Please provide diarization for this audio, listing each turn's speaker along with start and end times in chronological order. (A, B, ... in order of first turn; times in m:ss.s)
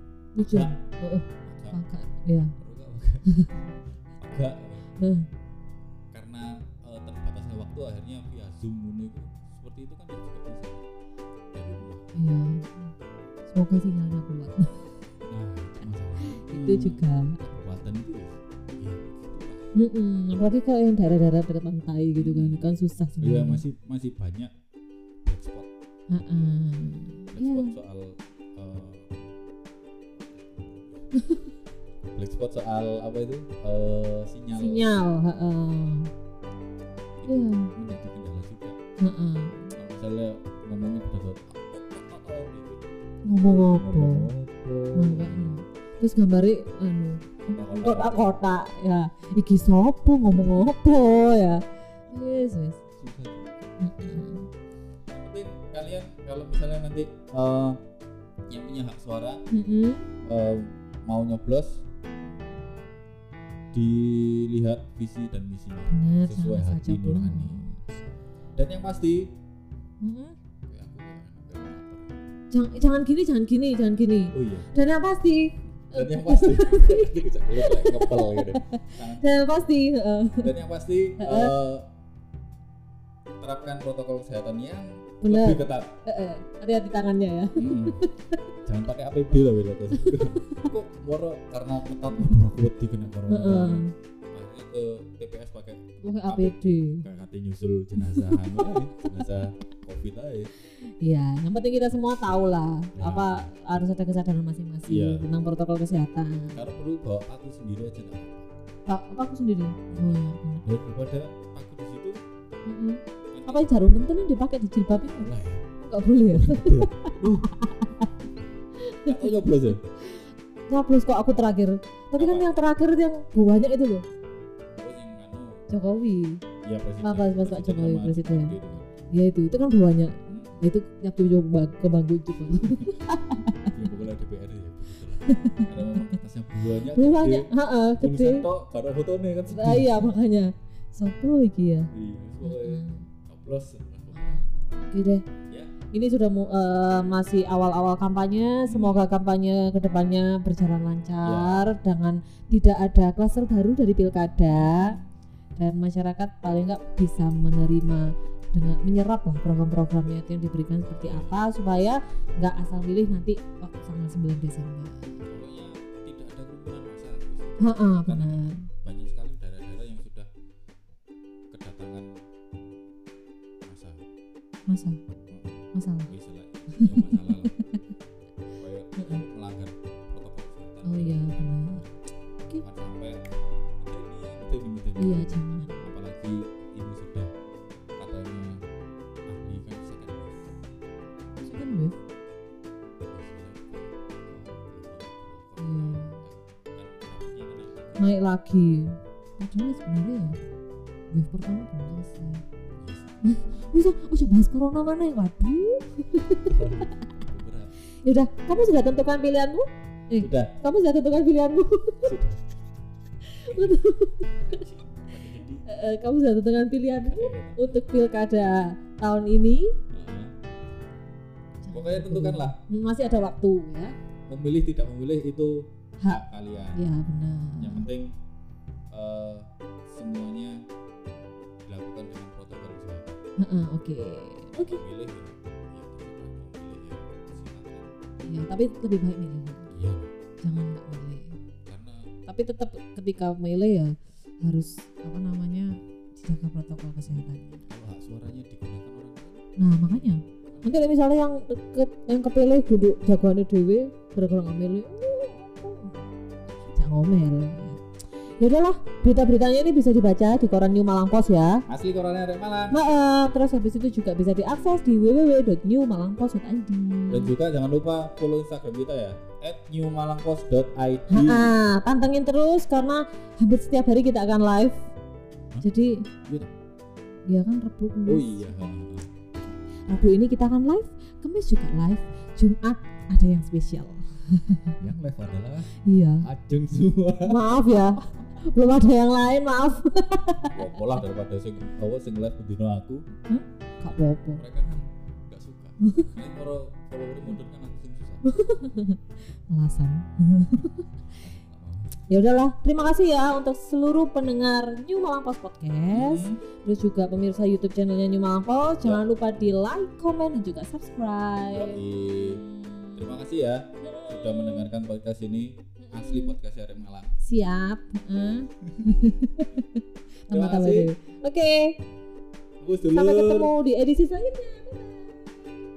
0:00.4-0:02.6 A
0:00.4-0:00.8 B
0:01.4-0:01.8 B
0:02.6-0:03.6 B
0:03.3-0:03.6 A
0:04.2-0:04.9 B
0:05.0-0:05.3 A
0:06.1-0:10.8 B
0:11.5-0:12.3 B
0:12.2-0:12.9 A
0:13.5-0:15.0 A
0:15.2-0:19.6 B
0:16.2-0:17.4 A
0:19.8-0:23.6 A
0:22.2-0:22.6 B
0:23.2-0:24.5 B
0:25.2-0:25.7 B
0:26.1-0:27.7 A
0:27.3-0:29.2 B
0:30.1-0:31.1 B
0:32.2-0:35.1 B
0:34.6-0:36.1 A
0:37.2-0:38.8 B
0:37.3-0:37.7 A
0:39.0-0:39.7 A
0:39.7-0:45.6 B
0:43.2-0:44.3 A
0:45.0-0:52.8 A
0:47.5-0:48.4 B
0:52.9-0:53.7 B
0:53.8-0:54.5 A
0:55.1-0:57.8 B
0:58.5-0:59.4 B
0:59.5-1:00.1 A
1:00.2-1:01.8 B
1:03.7-1:07.6 B
1:05.9-1:07.8 A
1:08.6-1:09.3 B
1:10.0-1:10.4 A
1:10.7-1:12.2 B
1:12.5-1:20.5 A
1:14.3-1:14.7 B
1:15.9-1:19.7 B
1:20.4-1:21.9 B
1:21.2-1:21.5 A
1:23.4-1:25.9 B
1:25.2-1:28.4 A
1:27.6-1:28.1 B
1:28.6-1:40.5 B
1:30.0-1:30.6 A
1:33.3-1:33.9 A
1:36.0-1:37.0 A
1:38.0-1:39.1 A
1:40.8-1:46.6 A
1:43.0-1:43.5 B
1:44.9-1:45.3 B
1:46.5-1:48.5 B
1:48.9-1:50.6 A
1:49.9-1:52.2 B
1:52.7-1:58.1 A
1:53.3-1:53.7 B
1:55.0-1:55.6 B
1:56.3-1:57.6 B
1:58.9-1:59.2 A
1:59.0-1:59.8 B
2:00.0-2:04.0 A
2:02.2-2:02.5 B
2:04.8-2:05.6 B
2:05.7-2:06.4 A
2:06.6-2:08.9 B
2:07.0-2:08.6 A
2:09.1-2:13.7 A
2:10.3-2:10.6 B
2:12.5-2:13.0 B
2:13.7-2:20.1 B
2:15.2-2:16.1 A
2:16.8-2:18.5 A
2:19.5-2:21.9 A
2:21.9-2:24.4 B
2:22.4-2:23.1 A
2:24.1-2:25.2 A
2:25.5-2:25.8 B
2:25.9-2:35.0 A
2:28.7-2:29.1 B
2:31.2-2:31.7 B
2:34.5-2:35.0 B
2:35.6-2:45.2 A
2:41.0-2:41.4 B
2:45.2-2:50.3 B
2:47.6-2:48.7 A
2:51.5-2:52.1 B
2:53.6-2:54.0 B
2:54.7-2:55.0 A
2:55.3-2:57.5 B
2:55.7-2:56.1 A
2:56.8-2:57.7 A
2:58.6-3:01.9 B
2:59.0-2:59.2 A
3:00.8-3:01.8 A
3:02.6-3:03.2 B
3:03.8-3:07.3 B
3:05.0-3:05.9 A
3:08.0-3:08.6 B
3:09.3-3:10.5 B
3:11.4-3:12.0 A
3:13.1-3:18.2 B
3:15.6-3:16.2 A
3:18.0-3:20.4 A
3:21.1-3:22.4 A
3:22.8-3:23.8 B
3:23.2-3:26.9 A
3:26.4-3:27.8 B
3:28.0-3:32.2 A
3:30.2-3:30.5 B
3:32.0-3:33.8 B
3:33.3-3:34.6 A
3:34.4-3:35.6 B
3:35.7-3:39.7 A
3:37.0-3:37.8 B
3:39.9-3:40.3 B
3:41.6-3:43.9 A
3:41.7-3:42.6 B
3:44.3-3:46.8 B
3:46.8-3:47.9 A
3:47.6-3:48.1 B
3:48.9-3:50.6 B
3:51.7-3:53.2 B
3:53.4-3:54.8 A
3:54.5-3:57.9 B
3:58.2-3:59.7 A
3:59.7-4:00.1 B
4:00.4-4:01.4 A
4:01.7-4:02.1 B
4:02.3-4:07.7 A
4:07.1-4:10.7 B
4:09.6-4:16.0 A
4:16.8-4:17.8 A
4:18.4-4:21.6 A
4:21.7-4:22.8 B
4:22.7-4:27.3 A
4:27.1-4:31.5 B
4:31.1-4:34.8 A
4:35.6-4:36.0 A
4:37.3-4:38.7 A
4:38.1-4:39.1 B
4:39.9-4:44.8 A
4:44.8-4:48.1 B
4:45.8-4:46.3 A
4:47.3-4:50.9 A
4:50.5-4:53.0 B
4:53.3-4:54.4 A
4:53.8-4:58.3 B
4:55.8-4:56.1 A
4:58.2-5:00.9 A
5:00.5-5:02.0 B
5:02.1-5:13.2 A
5:05.9-5:06.4 B
5:08.8-5:09.2 B
5:11.5-5:12.4 B
5:13.0-5:17.2 B
5:13.8-5:14.7 A
5:15.8-5:16.4 A
5:17.2-5:21.7 A
5:18.4-5:19.1 B
5:20.3-5:20.9 B
5:22.6-5:23.5 B
5:22.9-5:25.6 A